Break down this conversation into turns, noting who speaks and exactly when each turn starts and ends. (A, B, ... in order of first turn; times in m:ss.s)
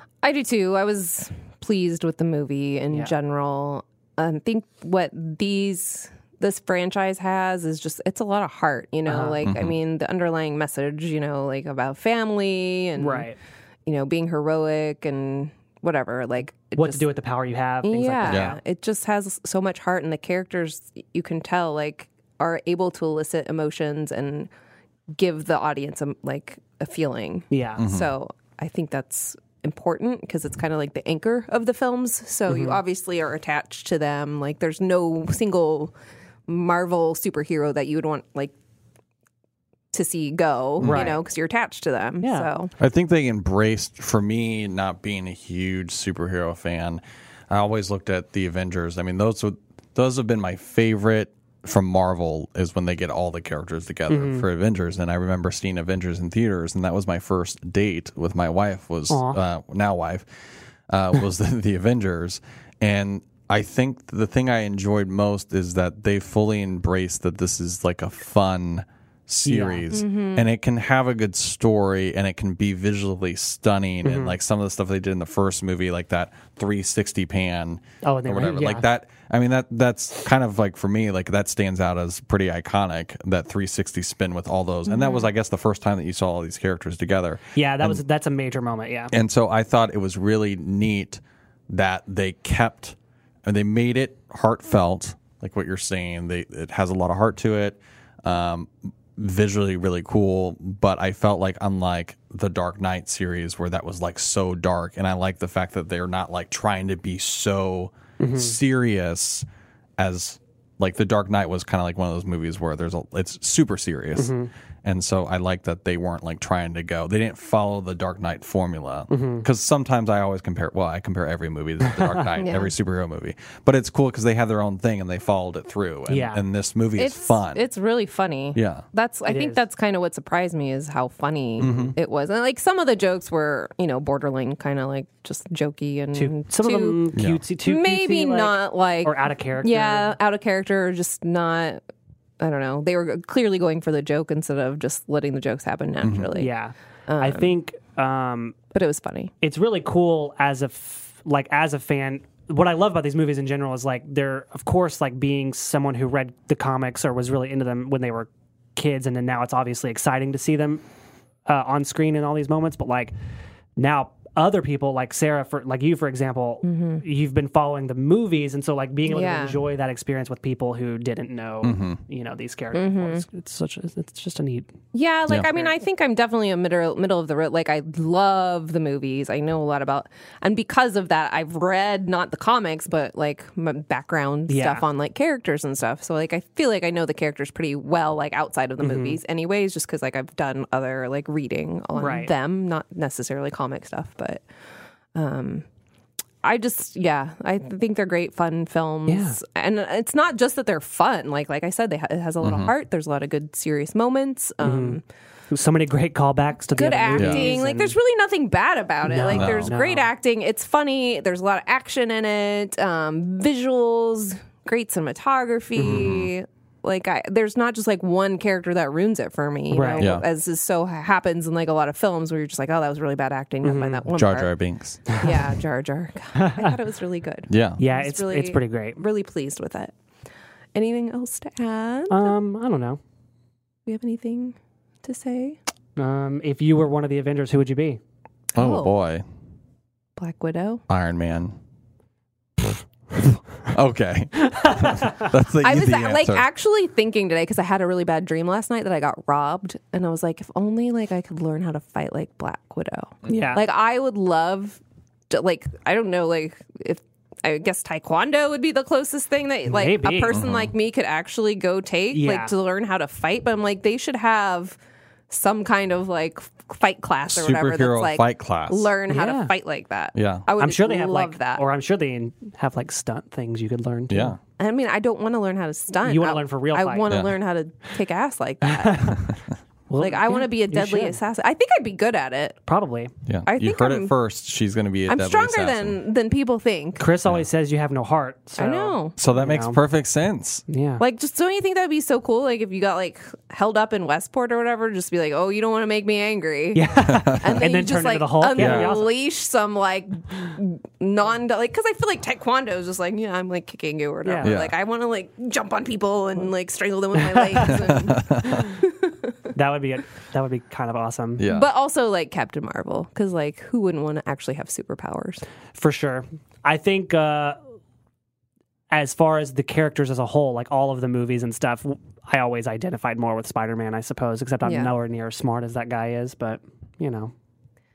0:00.2-0:13.3 A
0:09.1-0:09.4 B
0:09.4-0:09.8 C
0:13.0-0:13.4 B
0:13.9-0:17.0 A
0:16.8-0:18.6 B
0:17.8-0:24.5 A
0:18.3-0:18.6 C
0:25.2-0:35.9 A
0:27.5-0:27.9 B
0:27.8-0:28.1 C
0:32.5-0:32.8 B
0:36.5-0:38.5 A
0:39.9-0:42.7 A
0:40.8-0:41.1 C
0:40.8-0:41.2 B
0:42.2-0:42.5 B
0:42.8-1:00.3 C
0:54.1-0:54.5 B
0:59.1-0:59.4 B
1:00.9-1:28.0 C
1:09.5-1:09.9 B
1:09.9-1:10.5 A
1:14.0-1:14.4 B
1:18.0-1:18.9 B
1:24.9-1:25.3 A
1:27.6-1:29.1 B
1:29.1-1:49.5 C
1:48.2-1:48.6 B
1:50.0-2:07.6 C
1:54.2-1:54.5 B
1:59.1-1:59.5 B
2:01.9-2:02.3 B
2:02.4-2:02.7 A
2:06.1-2:06.4 B
2:07.0-2:17.0 A
2:08.6-2:08.8 C
2:09.2-2:09.6 B
2:11.6-2:11.9 C
2:11.6-2:12.0 B
2:16.1-2:20.2 B
2:17.1-2:17.4 C
2:17.6-2:21.8 A
2:22.4-2:26.5 A
2:26.0-2:26.3 C
2:26.4-2:28.6 B
2:27.1-2:27.5 A
2:28.7-2:29.3 A
2:29.4-2:40.8 B
2:41.5-2:43.1 B
2:43.8-2:54.7 B
2:46.6-2:47.0 A
2:49.1-2:49.6 A
2:51.6-2:52.0 C
2:52.7-2:53.2 A
2:54.9-3:14.4 A
3:04.5-3:04.8 B
3:08.8-3:09.2 B
3:12.0-3:12.3 B
3:15.2-3:15.6 A
3:16.4-3:25.0 A
3:19.1-3:19.4 B
3:22.4-3:22.7 C
3:24.6-3:25.0 B
3:25.5-3:28.0 B
3:26.8-3:44.5 A
3:27.2-3:27.5 C
3:29.0-3:30.1 B
3:29.3-3:29.7 C
3:35.8-3:36.0 B
3:35.8-3:36.3 C
3:39.7-3:40.1 B
3:40.0-3:40.2 C
3:43.6-3:44.0 B
3:44.1-3:45.0 C
3:45.1-3:45.4 B
3:45.1-3:49.9 A
3:46.4-3:46.7 B
3:47.5-3:47.8 C
3:47.8-3:49.0 B
3:50.8-3:52.3 A
3:52.1-3:53.0 B
3:53.9-3:55.6 A
3:56.0-3:58.0 B
3:58.6-3:59.2 C
3:58.6-3:58.9 A
4:00.2-4:00.8 A
4:00.9-4:01.5 C
4:03.2-4:06.5 C
4:04.5-4:05.2 B
4:05.6-4:24.8 A
4:13.3-4:13.6 B
4:19.7-4:20.4 B
4:20.3-4:20.7 C
4:22.1-4:22.5 B
4:25.3-4:31.6 A
4:27.3-4:28.9 C
4:29.1-4:29.5 B
4:30.2-4:30.5 C
4:30.6-4:34.4 B
4:34.1-4:34.4 C
4:34.6-4:39.2 A
4:36.0-4:37.0 B
4:37.1-4:37.4 C
4:38.6-4:39.3 B
4:39.9-4:41.2 B
4:40.0-4:42.6 A
4:42.7-4:43.1 B
4:43.3-4:46.0 C
4:43.5-4:44.1 A
4:45.1-4:47.0 A
4:47.0-4:49.8 B
4:48.6-4:49.2 A
4:49.2-4:50.6 C
4:50.7-4:51.0 B
4:51.0-5:09.3 A
4:56.7-4:59.1 B
4:57.0-4:57.6 C
4:58.6-4:58.9 C
5:04.2-5:04.6 B
5:04.4-5:04.7 C
5:07.2-5:07.9 B
5:07.7-5:08.7 C
5:09.5-5:11.4 B
5:11.4-5:11.7 C
5:11.5-5:15.4 A
5:15.8-5:17.6 B
5:18.9-5:27.3 B
5:24.6-5:24.9 A